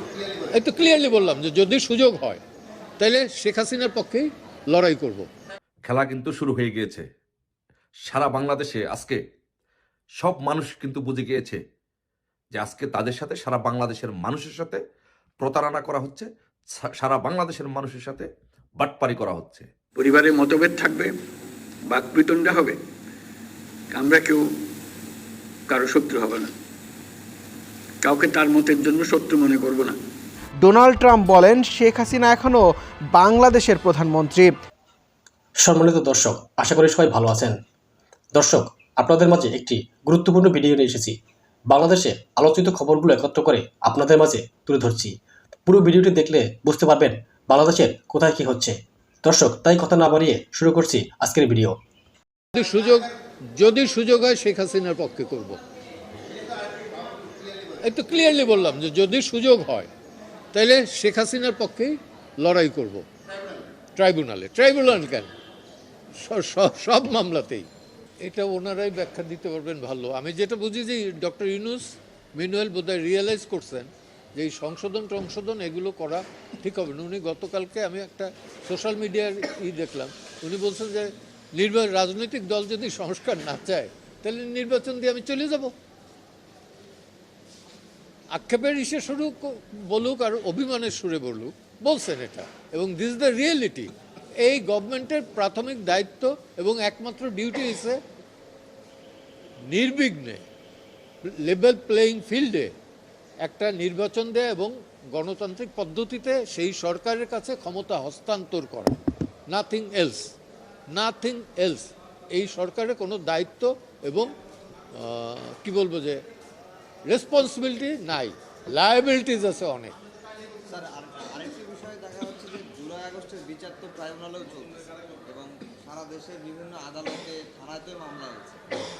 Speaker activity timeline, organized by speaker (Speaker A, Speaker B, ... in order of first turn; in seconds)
Speaker A: 0.5-2.4, 3.0-5.3, 52.5-55.6, 57.8-59.9, 60.5-63.0, 64.0-65.3, 66.2-67.7, 68.2-85.7, 88.3-98.0, 99.7-100.5, 101.2-102.7, 103.4-109.0, 109.5-110.4, 110.9-114.3, 114.9-116.2, 117.1-119.9
Speaker B: 5.8-7.0, 8.1-9.2, 10.2-11.6, 12.5-14.8, 15.4-18.3, 18.8-19.7
Speaker C: 20.0-21.1, 21.9-22.8, 23.9-24.4, 25.7-26.5, 28.0-29.9
Speaker D: 30.6-34.5
Speaker E: 35.6-37.6, 38.3-41.1, 41.7-45.1, 45.7-51.8
Speaker F: 120.7-128.6